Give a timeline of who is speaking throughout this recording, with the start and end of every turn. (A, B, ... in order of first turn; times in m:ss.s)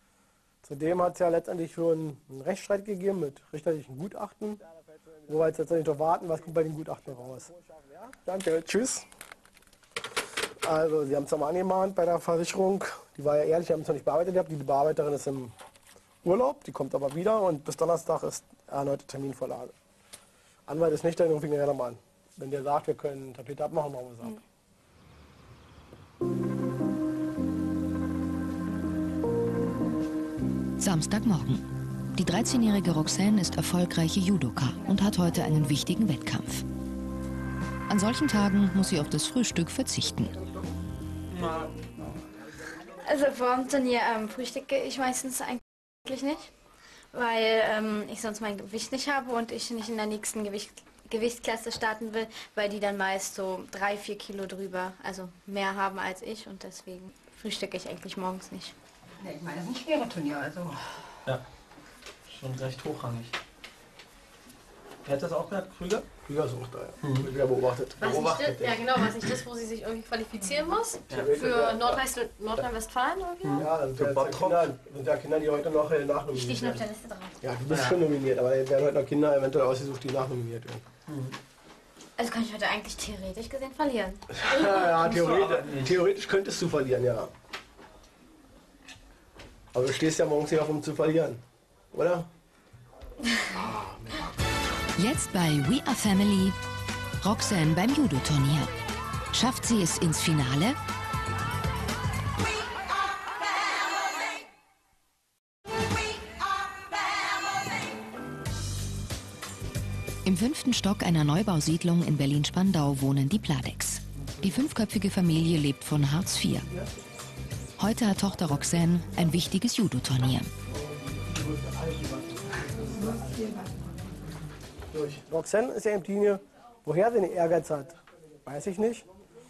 0:00.6-0:04.6 A
0:05.3-0:09.1 A
0:10.6-0:15.5 A
0:16.2-0:19.7 A
0:20.7-0:24.4 A
0:30.8-0:36.6 B
0:37.9-0:40.3 B
0:41.3-0:42.0 C
0:43.0-0:46.5 D
0:47.1-0:58.7 D
0:59.2-1:01.0 E
1:02.3-1:03.3 C
1:05.0-1:06.2 C
1:06.2-1:08.8 A
1:07.0-1:07.3 C
1:08.0-1:13.7 F
1:08.2-1:08.7 C
1:11.1-1:12.0 A
1:13.4-1:14.7 C
1:13.5-1:16.8 A
1:16.3-1:17.4 D
1:17.4-1:20.9 A
1:17.7-1:18.0 C
1:21.1-1:21.3 C
1:22.2-1:24.4 D
1:24.3-1:27.3 A
1:25.0-1:26.0 C
1:29.7-1:31.4 A
1:31.9-1:32.3 A
1:33.5-1:34.4 A
1:35.0-1:36.6 B
1:37.2-1:38.7 B
1:39.3-1:40.8 B
1:50.2-1:56.7 B
1:57.8-2:00.5 B
2:00.7-2:03.5 C
2:02.9-2:03.9 E
2:04.9-2:09.0 A